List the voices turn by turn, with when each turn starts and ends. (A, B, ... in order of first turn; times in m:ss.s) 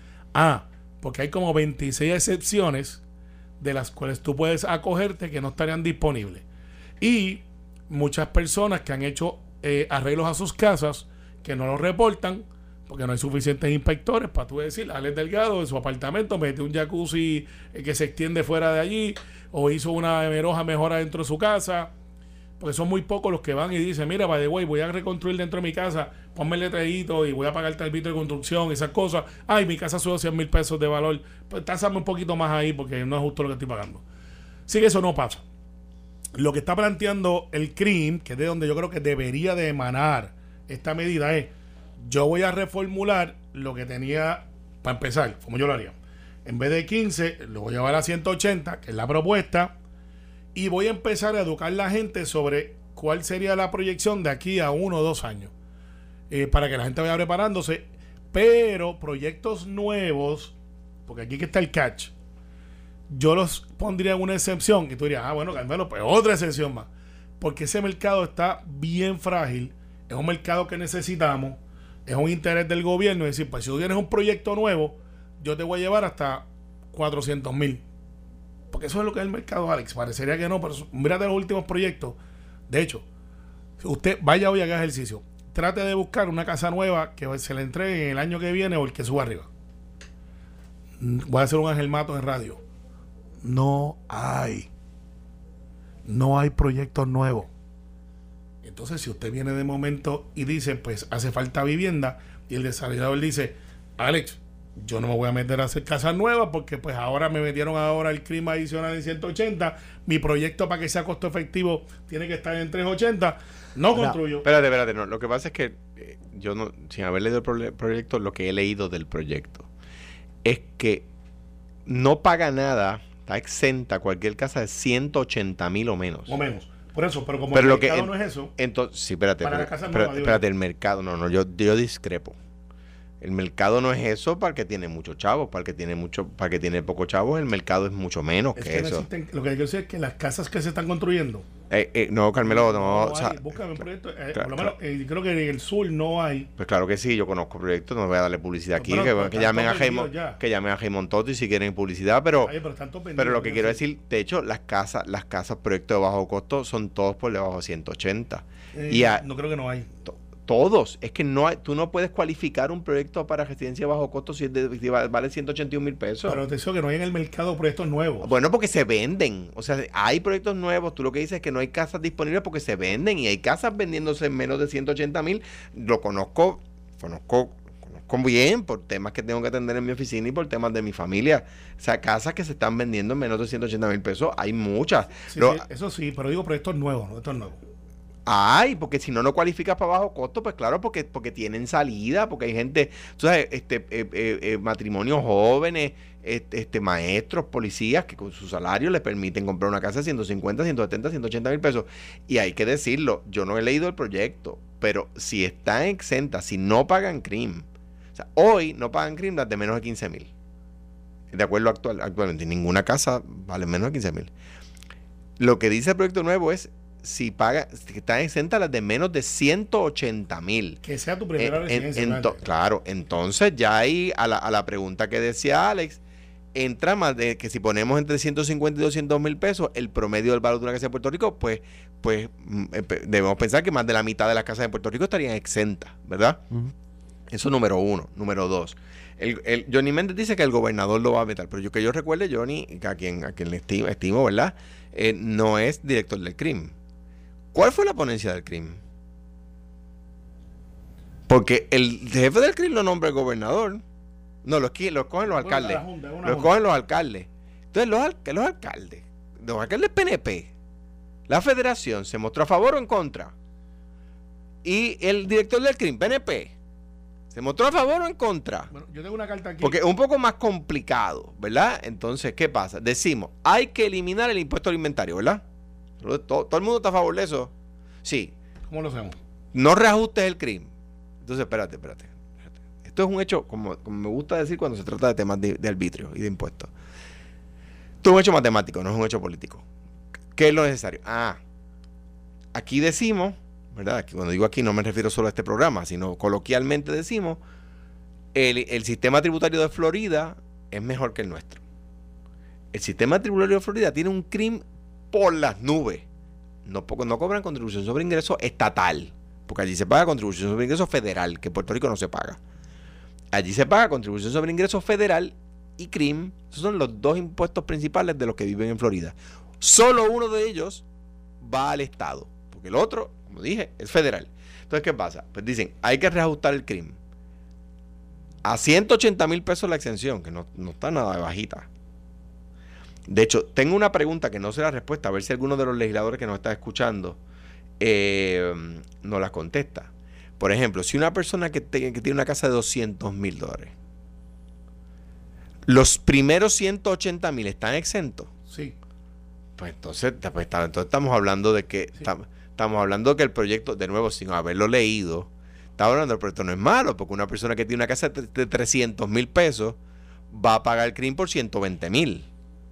0:00.3-0:03.0 A
0:03.6-0:06.4 A
0:07.0-0:21.9 A
0:22.6-0:34.0 A
0:34.7-0:35.4 A
0:36.4-0:49.8 A
0:50.6-0:55.5 A
0:56.3-1:00.5 A
1:01.1-1:02.1 A
1:03.1-1:06.9 A
1:07.4-1:17.8 A
1:18.7-1:22.2 A
1:22.7-1:23.0 A
1:23.8-1:29.5 A
1:31.0-1:32.6 A
1:33.4-1:34.7 A
1:36.1-1:37.5 A
1:38.6-1:54.5 A
1:54.4-1:59.7 B
2:00.4-2:01.1 B
2:01.9-2:06.4 B
2:06.3-2:08.5 A
2:07.5-2:12.4 B
2:09.4-2:10.4 A
2:13.2-2:19.0 B
2:18.6-2:21.5 A
2:21.7-2:23.5 B
2:22.4-2:26.5 A
2:24.3-2:24.7 B
2:26.6-2:32.5 B
2:28.8-2:30.4 A
2:32.4-2:33.8 A
2:33.2-2:39.2 B
2:38.7-2:39.9 A
2:40.0-2:46.4 B
2:46.3-2:48.3 A
2:48.2-3:05.6 B
3:05.3-3:07.6 A
3:08.3-3:30.3 B
3:31.3-3:34.3 B
3:35.4-3:40.8 B
3:40.8-3:42.4 A
3:41.4-3:46.0 B
3:46.5-3:56.7 B
3:57.3-4:06.7 B
4:07.5-4:08.8 B
4:11.3-4:13.8 B
4:14.4-4:20.5 B
4:15.3-4:16.6 A
4:21.3-4:23.3 B
4:24.6-4:26.5 B
4:27.3-4:28.7 B
4:28.7-4:29.8 A
4:29.6-4:35.4 B
4:36.0-4:37.5 B
4:38.0-4:38.3 B
4:38.7-4:39.2 A
4:39.5-4:40.7 B
4:41.2-4:46.7 B
4:48.0-4:49.6 B
4:50.4-4:51.4 B
4:52.5-4:57.4 B
4:58.3-5:01.6 B
5:02.7-5:06.0 B
5:06.7-5:12.4 B
5:13.3-5:20.8 B
5:21.4-5:27.0 B
5:28.4-5:31.7 B
5:33.1-5:37.2 B
5:37.8-5:39.9 B
5:40.4-5:43.7 B
5:45.7-5:48.3 B
5:48.5-5:48.8 A
5:49.6-5:59.8 B
6:00.3-6:02.2 B